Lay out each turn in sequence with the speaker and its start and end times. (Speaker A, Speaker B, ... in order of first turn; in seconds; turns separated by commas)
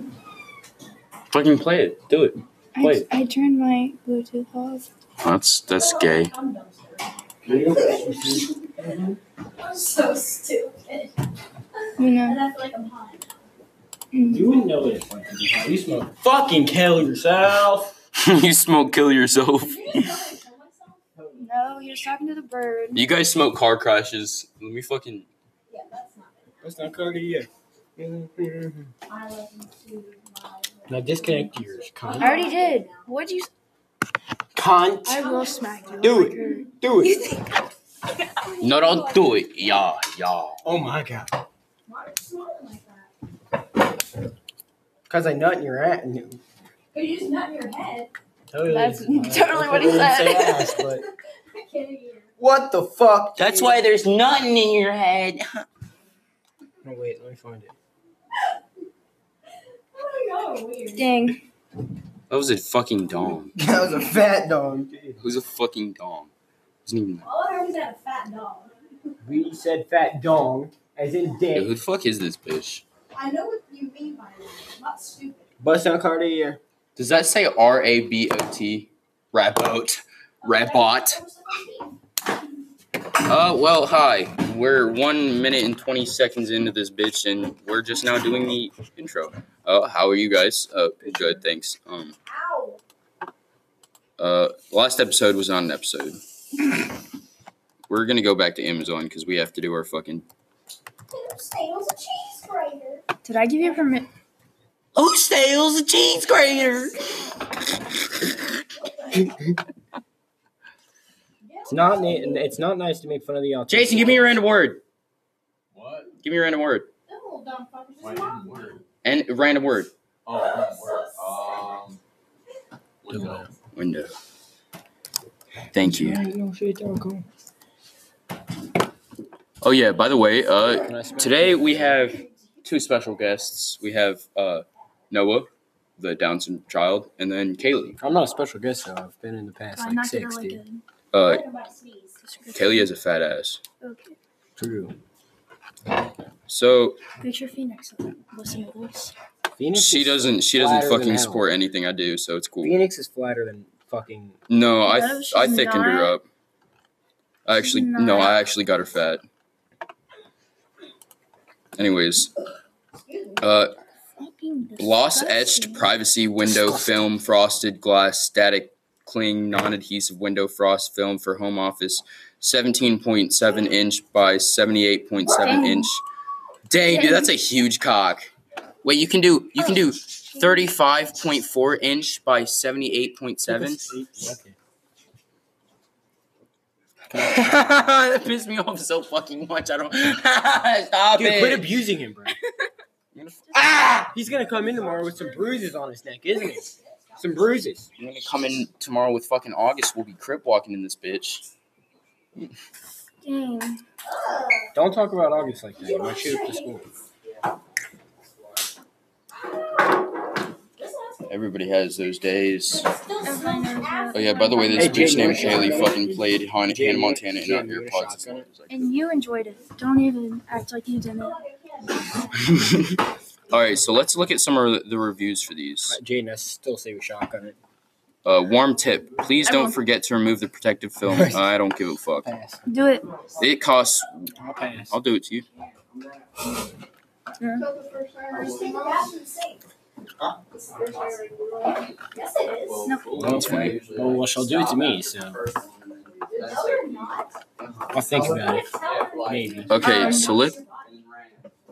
Speaker A: 1.3-3.1, Speaker B: 2.8-4.8, Speaker A: 5.2-6.3, Speaker C: 6.0-7.0, Speaker D: 7.4-9.2, Speaker C: 9.6-11.1, Speaker B: 12.0-12.4, Speaker C: 12.3-13.2, Speaker B: 14.1-14.5, Speaker D: 14.3-17.9, Speaker A: 18.2-20.3, Speaker C: 19.6-21.0, Speaker B: 21.3-23.0, Speaker A: 22.9-25.3, Speaker C: 25.7-26.4, Speaker D: 26.6-28.9, Speaker C: 29.1-33.0, Speaker D: 30.9-32.5, Speaker B: 32.2-33.5, Speaker D: 34.5-35.3, Speaker B: 35.0-36.7, Speaker C: 35.2-36.1, Speaker D: 36.0-37.2, Speaker A: 38.6-40.6, Speaker D: 40.6-41.3, Speaker C: 41.9-43.1, Speaker D: 45.1-46.4, Speaker C: 46.9-48.1, Speaker D: 48.5-51.0, Speaker B: 48.6-50.9, Speaker C: 51.5-52.3, Speaker D: 52.4-53.6, Speaker A: 53.4-55.6, Speaker D: 56.8-57.7, Speaker C: 59.9-61.0, Speaker B: 60.9-61.4, Speaker A: 62.3-63.6, Speaker D: 63.6-65.2, Speaker A: 65.2-66.3, Speaker A: 66.8-67.3, Speaker C: 67.2-68.7, Speaker D: 69.2-71.8, Speaker A: 71.5-72.8, Speaker C: 73.2-75.5, Speaker D: 75.6-76.6, Speaker A: 77.0-81.2, Speaker C: 80.5-81.7, Speaker A: 83.2-92.1, Speaker C: 92.3-92.8, Speaker A: 94.2-96.2, Speaker A: 97.9-100.2, Speaker C: 101.1-103.0, Speaker B: 103.2-104.1, Speaker A: 105.0-107.0, Speaker C: 109.0-109.2, Speaker C: 111.4-112.2, Speaker D: 111.7-114.3, Speaker A: 113.7-114.8, Speaker E: 115.7-116.1, Speaker A: 116.2-116.9, Speaker C: 117.1-118.8, Speaker E: 118.0-118.8, Speaker A: 119.0-119.9, Speaker E: 120.3-122.0, Speaker C: 120.6-121.5, Speaker E: 123.0-123.4, Speaker D: 123.1-123.5, Speaker A: 123.7-124.1, Speaker A: 125.7-126.2, Speaker D: 125.8-127.2, Speaker A: 129.6-138.0, Speaker D: 130.8-132.0, Speaker D: 138.0-140.6, Speaker B: 139.8-140.8, Speaker A: 141.1-141.4, Speaker C: 141.2-142.1, Speaker B: 142.2-142.9, Speaker A: 142.5-143.6, Speaker B: 143.8-144.2, Speaker D: 144.6-144.9, Speaker A: 146.5-147.0, Speaker B: 147.2-149.1, Speaker D: 149.6-151.5, Speaker A: 149.7-152.8, Speaker D: 152.6-154.4, Speaker A: 154.5-156.2, Speaker B: 154.8-156.2, Speaker A: 157.4-159.2, Speaker B: 157.5-158.4, Speaker A: 161.8-162.3, Speaker C: 163.1-163.4, Speaker A: 163.4-163.8, Speaker B: 164.2-165.9, Speaker A: 164.8-176.0, Speaker B: 175.3-175.9, Speaker A: 176.7-178.3, Speaker B: 176.9-177.3, Speaker A: 178.8-183.8, Speaker D: 183.5-184.6, Speaker D: 187.1-187.5, Speaker A: 187.1-191.7, Speaker D: 191.2-192.3, Speaker A: 193.1-194.1, Speaker D: 193.9-197.9, Speaker A: 198.0-201.4, Speaker B: 203.2-203.8, Speaker D: 204.7-206.8, Speaker C: 205.8-206.6, Speaker C: 210.8-211.2, Speaker A: 211.3-212.9, Speaker C: 212.9-215.2, Speaker B: 213.2-215.7, Speaker A: 214.1-218.9, Speaker D: 214.8-218.4, Speaker B: 218.7-221.4, Speaker C: 221.3-222.3, Speaker A: 222.1-226.0, Speaker D: 225.8-227.6, Speaker A: 228.2-232.3, Speaker B: 229.4-229.7, Speaker D: 231.0-231.5, Speaker D: 232.2-232.7, Speaker B: 232.7-233.1, Speaker A: 233.3-234.3, Speaker D: 234.4-234.9, Speaker A: 234.9-235.4, Speaker B: 237.4-237.7, Speaker C: 237.6-239.6, Speaker C: 240.7-241.3, Speaker C: 242.0-242.9, Speaker A: 242.6-246.1, Speaker D: 243.1-245.4, Speaker E: 246.1-247.0, Speaker C: 246.3-247.3, Speaker D: 247.9-249.9, Speaker C: 248.7-250.8, Speaker E: 248.8-250.0, Speaker A: 249.7-250.6, Speaker B: 249.8-250.4, Speaker E: 250.8-251.4